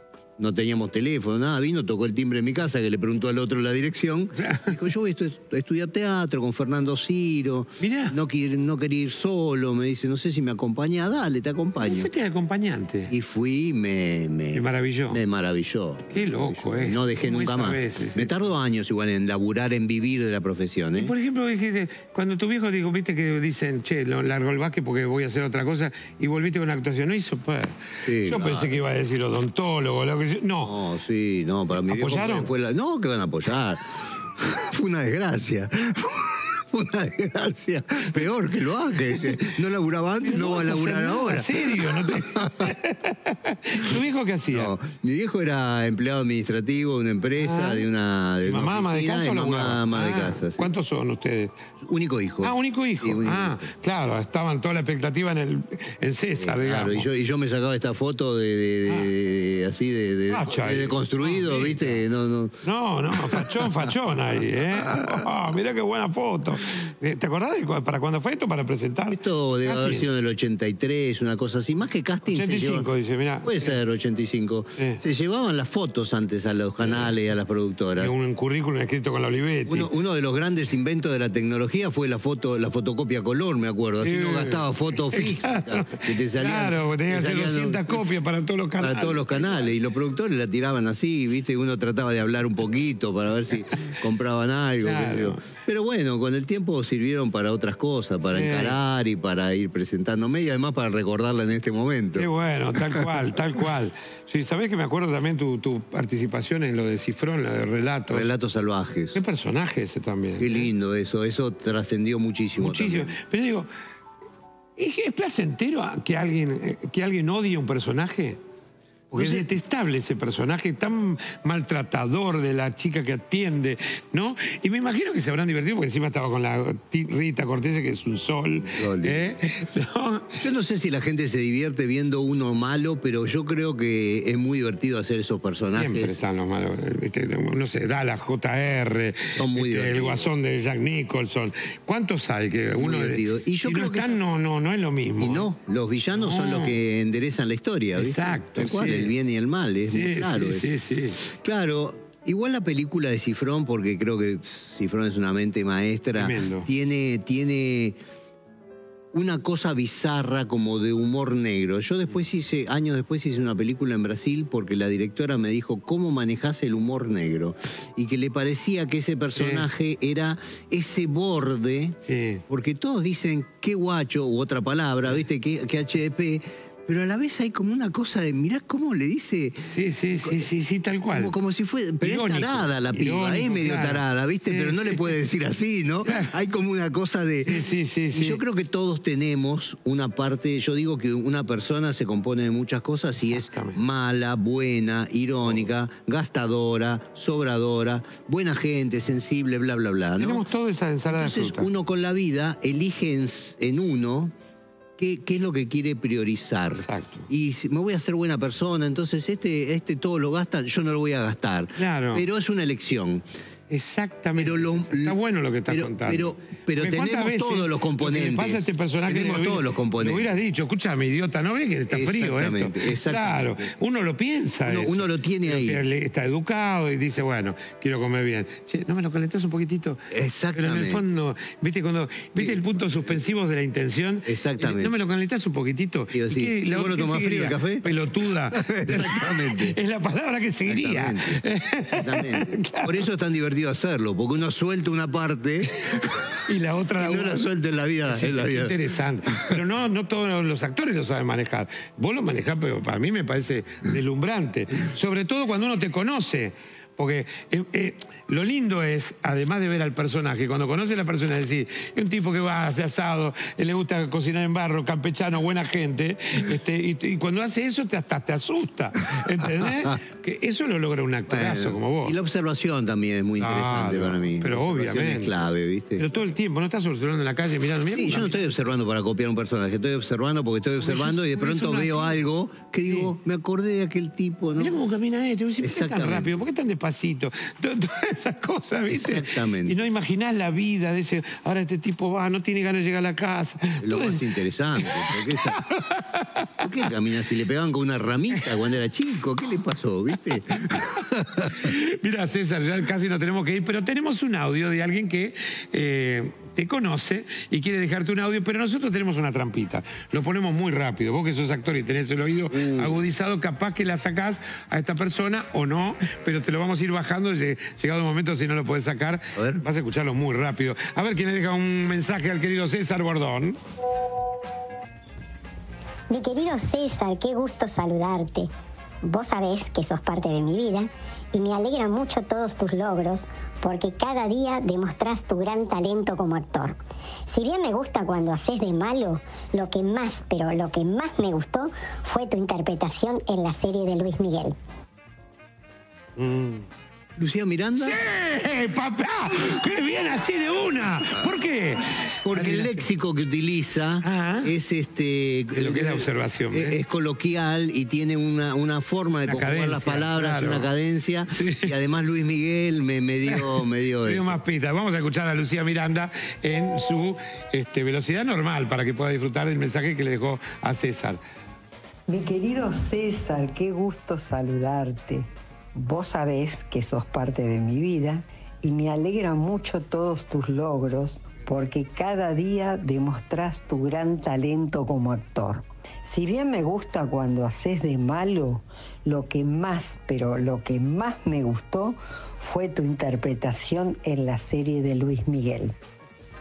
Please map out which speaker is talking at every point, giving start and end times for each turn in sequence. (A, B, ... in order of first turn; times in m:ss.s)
0:00.4-0:12.1 A
0:04.4-0:04.8 B
0:07.8-0:08.2 B
0:11.8-0:13.1 B
0:13.1-0:21.1 A
0:14.5-0:15.2 B
0:16.1-0:18.3 B
0:21.0-0:30.8 B
0:28.0-0:28.8 A
0:30.6-0:42.7 A
0:31.9-0:32.5 B
0:40.2-0:44.7 B
0:44.5-0:50.7 A
0:47.4-0:47.9 B
0:48.4-0:51.6 B
0:51.8-0:53.7 A
0:52.4-0:57.1 B
0:56.4-1:02.6 A
1:00.3-1:02.0 B
1:02.6-1:10.1 B
1:03.1-1:04.0 A
1:04.7-1:05.2 A
1:09.1-1:12.9 A
1:12.3-1:13.8 B
1:13.4-1:18.1 A
1:16.8-1:17.1 B
1:18.0-1:19.9 B
1:19.7-1:28.0 A
1:24.0-1:29.7 B
1:28.8-1:42.3 A
1:34.8-1:35.5 B
1:38.2-1:38.8 B
1:42.2-1:48.3 B
1:48.1-1:49.2 A
1:49.1-1:50.7 B
1:50.4-1:53.1 A
1:52.6-1:53.7 B
1:54.8-1:58.4 B
1:59.1-2:10.4 B
1:59.1-1:59.5 A
2:08.6-2:09.2 A
2:10.4-2:16.2 A
2:15.7-2:25.5 B
2:19.4-2:20.3 A
2:22.7-2:24.2 A
2:25.2-2:30.7 A
2:26.2-2:26.8 B
2:27.9-2:29.1 B
2:29.8-2:31.2 B
2:31.2-2:38.0 A
2:36.1-2:36.7 B
2:39.1-2:52.0 A
2:49.4-2:49.6 B
2:52.0-2:52.4 B
2:52.5-2:59.7 A
2:59.7-3:01.3 B
3:01.1-3:20.4 A
3:02.0-3:05.1 B
3:06.0-3:06.3 B
3:07.4-3:08.4 B
3:13.2-3:13.8 B
3:20.2-3:21.7 B
3:21.1-3:24.3 A
3:25.0-3:33.2 A
3:26.8-3:27.3 B
3:31.8-3:32.3 B
3:33.7-4:03.0 B
3:34.4-3:35.2 A
3:35.7-3:40.3 A
3:41.9-3:43.7 A
3:44.6-3:45.8 A
3:50.1-3:51.0 A
3:52.4-3:52.6 A
3:54.3-3:54.9 A
3:56.1-3:57.9 A
3:58.5-3:59.8 A
4:00.6-4:06.4 A
4:06.4-4:07.4 B
4:07.0-4:08.7 A
4:08.1-4:32.2 B
4:09.3-4:09.6 A
4:31.3-4:36.0 A
4:33.4-4:35.4 B
4:36.0-4:38.4 B
4:37.9-4:44.8 A
4:40.8-4:42.2 B
4:42.9-4:43.1 B
4:44.6-4:54.3 B
4:45.6-4:46.4 A
4:48.9-4:49.8 A
4:53.8-4:55.6 A
4:54.8-4:56.6 B
4:56.6-5:01.7 A
5:00.7-5:23.6 B
5:12.5-5:13.0 A
5:19.4-5:19.6 A
5:26.1-5:28.5 C
5:29.0-5:36.8 C
5:37.3-5:44.6 C
5:46.2-5:46.6 B
5:47.2-5:48.0 A
5:47.8-5:52.8 B
5:52.2-6:04.4 A
5:54.0-5:54.5 B
5:55.5-5:56.8 B
5:59.2-6:00.7 B
6:01.3-6:01.7 B
6:03.3-6:11.2 B
6:12.1-6:35.7 D